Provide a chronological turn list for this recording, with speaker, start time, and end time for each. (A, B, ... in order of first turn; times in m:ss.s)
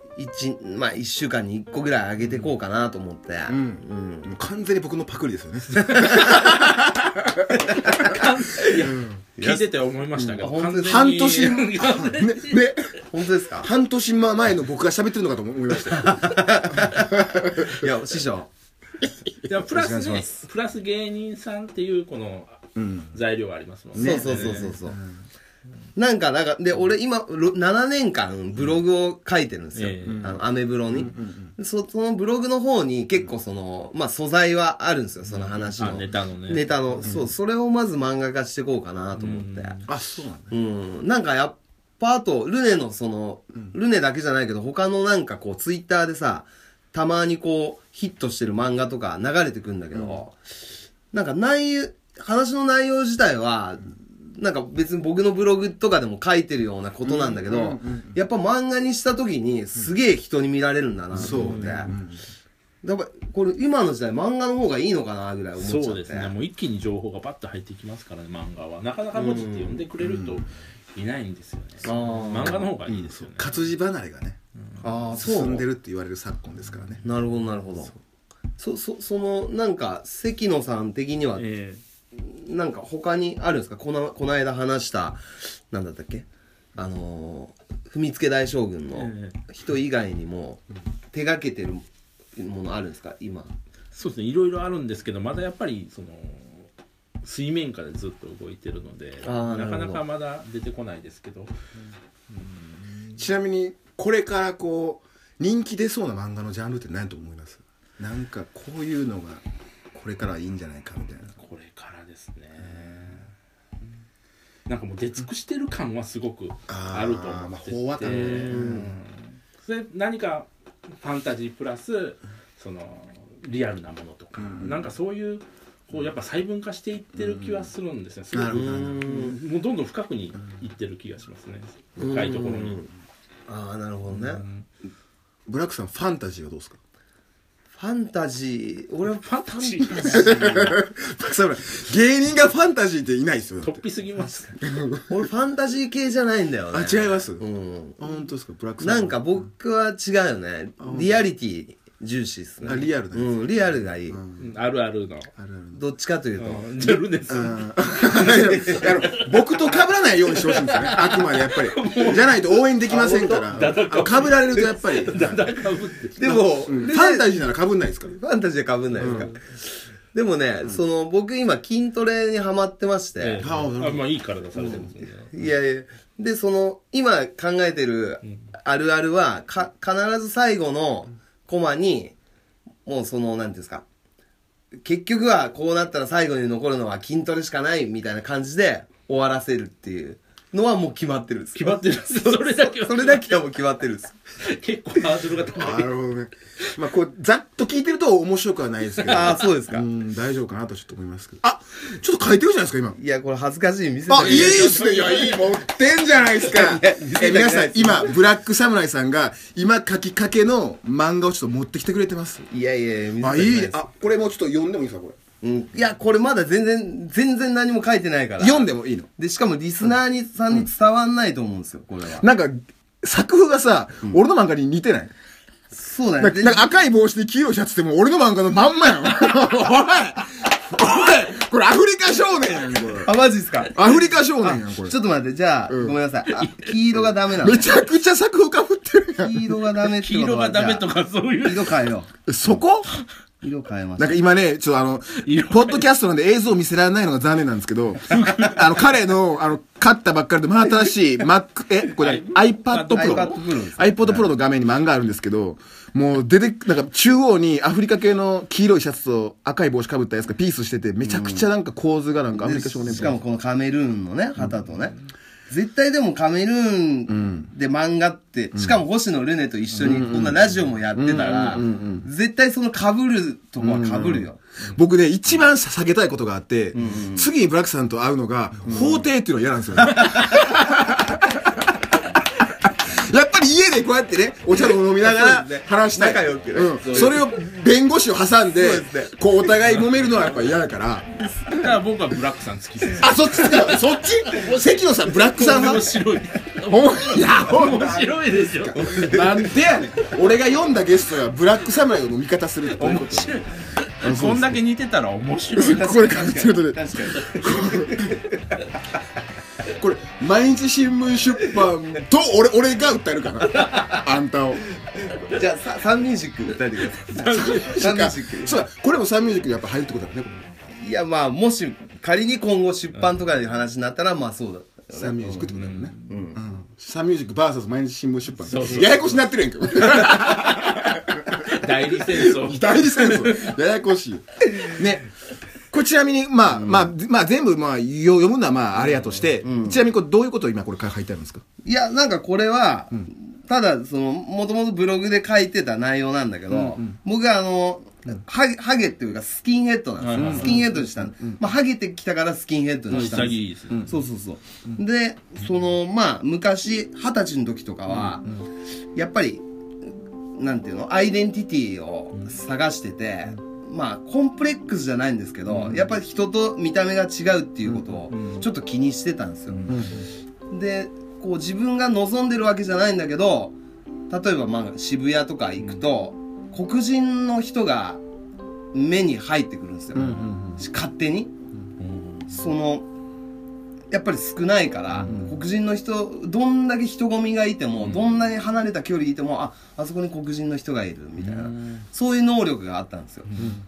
0:00.2-0:04.3 A
0:03.5-0:07.6 B
0:05.7-0:06.7 A
0:07.5-0:08.8 A
0:07.8-0:12.6 C
0:08.8-0:09.2 B
0:09.4-0:09.6 A
0:10.2-0:11.1 A
0:10.8-0:17.8 B
0:13.1-0:13.7 A
0:15.9-0:18.5 A
0:19.3-0:20.1 B
0:19.4-0:24.8 C
0:19.7-0:20.3 A
0:22.8-0:23.1 B
0:23.9-0:25.2 B
0:24.0-0:25.0 A
0:26.0-0:39.8 A
0:29.8-0:30.3 C
0:30.0-0:31.5 B
0:35.8-0:36.7 C
0:37.0-0:37.3 B
0:39.2-0:39.9 C
0:39.9-0:40.5 B
0:40.5-0:50.3 A
0:50.0-0:50.2 B
0:51.1-1:01.9 A
0:57.0-0:58.2 B
1:01.2-1:02.0 C
1:01.2-1:02.2 B
1:02.8-1:06.3 A
1:05.6-1:13.5 C
1:09.2-1:09.8 A
1:10.0-1:10.4 B
1:11.8-1:12.7 A
1:12.4-1:14.4 B
1:14.8-1:15.7 A
1:15.2-1:17.0 B
1:17.0-1:18.0 A
1:18.6-1:21.4 A
1:21.4-1:21.8 C
1:22.1-1:31.8 A
1:28.9-1:29.4 C
1:32.4-1:33.5 A
1:33.9-1:36.7 C
1:37.2-1:41.5 C
1:39.2-1:40.0 A
1:42.3-1:43.0 C
1:43.2-1:51.3 B
1:51.4-1:53.3 C
1:54.7-2:12.8 C
1:56.7-1:58.9 B
1:58.1-1:58.9 A
2:04.4-2:04.8 B
2:07.2-2:07.7 B
2:08.3-2:09.1 B
2:08.5-2:09.4 A
2:12.0-2:12.9 A
2:12.0-2:12.7 B
2:13.5-2:14.4 A
2:14.1-2:14.6 C
2:15.5-2:16.8 B
2:17.8-2:20.8 A
2:19.2-2:20.6 C
2:20.1-2:23.8 B
2:23.6-2:24.6 C
2:24.6-2:25.1 B
2:25.1-2:28.0 A
2:26.7-2:27.5 B
2:28.0-2:29.3 B
2:28.8-2:34.2 A
2:30.8-2:31.2 B
2:32.6-2:33.4 B
2:34.1-2:34.5 B
2:34.4-2:35.3 C
2:35.4-2:35.8 B
2:35.8-2:37.1 A
2:36.4-2:37.8 C
2:37.3-2:45.5 B
2:38.0-2:39.1 A
2:38.8-2:42.6 C
2:42.9-2:43.6 A
2:43.4-2:46.8 C
2:46.2-2:47.3 A
2:46.7-2:48.2 B
2:48.1-2:53.5 A
2:49.0-2:49.3 C
2:49.0-2:49.3 B
2:53.2-2:55.3 C
2:53.4-2:54.1 B
2:54.6-3:02.1 A
3:02.8-3:03.8 A
3:04.8-3:14.2 A
3:11.6-3:13.4 C
3:14.4-3:15.9 C
3:15.6-3:23.0 B
3:19.0-3:19.3 C
3:19.1-3:19.8 A
3:23.0-3:25.0 A
3:24.1-3:32.5 B
3:24.1-3:25.6 C
3:26.4-3:28.2 A
3:32.5-3:33.8 A
3:33.2-3:35.2 B
3:35.4-3:42.2 A
3:38.4-3:39.1 B
3:42.2-3:45.1 B
3:45.7-3:46.8 A
3:46.2-3:53.1 B
3:53.0-3:53.8 A
3:53.7-3:55.0 B
3:54.4-3:57.8 A
3:55.7-3:56.0 B
3:56.3-3:56.7 C
3:57.4-3:59.5 B
3:59.2-4:02.1 A
3:59.8-4:01.8 C
4:02.3-4:02.9 B
4:03.4-4:04.2 A
4:04.0-4:23.2 B
4:05.2-4:05.9 C
4:08.1-4:08.7 C
4:12.0-4:13.4 C
4:12.9-4:14.3 A
4:21.0-4:21.5 A
4:22.3-4:25.0 A
4:25.5-4:34.4 A
4:27.1-4:27.5 B
4:29.8-4:32.0 B
4:33.6-4:41.6 B
4:36.7-4:37.3 A
4:39.9-4:40.6 A
4:42.6-4:51.1 B
4:44.9-4:47.2 A
4:46.8-4:47.2 C
4:48.5-4:49.6 A
4:51.4-4:58.9 C
4:53.0-4:55.9 B
4:56.7-5:03.4 B
4:58.7-4:59.6 A
5:02.6-5:06.4 C
5:04.0-5:04.6 B
5:05.5-5:08.2 B
5:05.6-5:08.1 A
5:07.0-5:08.6 C
5:09.8-5:14.6 B
5:13.5-5:14.0 C
5:15.1-5:18.6 A
5:16.9-5:17.8 C
5:17.2-5:20.5 B
5:20.7-5:25.5 A
5:24.9-5:35.1 B
5:25.5-5:26.1 C
5:26.1-5:26.4 A
5:28.4-5:29.2 C
5:30.0-5:30.7 C
5:31.3-5:33.6 C
5:35.7-5:41.4 B
5:38.8-5:39.2 C
5:39.4-5:39.8 A
5:41.6-5:58.3 A
5:46.5-5:46.9 B
5:50.0-5:50.6 C
5:50.1-5:51.4 B
5:52.9-5:53.9 C
5:52.9-5:54.0 B
5:58.9-6:09.7 A
6:05.5-6:05.9 C
6:08.1-6:08.5 C
6:09.5-6:09.9 C
6:09.7-6:10.1 B
6:10.5-6:13.6 A
6:14.1-6:18.0 A
6:18.7-6:21.3 A
6:19.9-6:20.6 B
6:21.8-6:22.3 C
6:22.3-6:22.9 A
6:23.9-6:33.3 A
6:31.2-6:31.8 C
6:33.3-6:33.6 C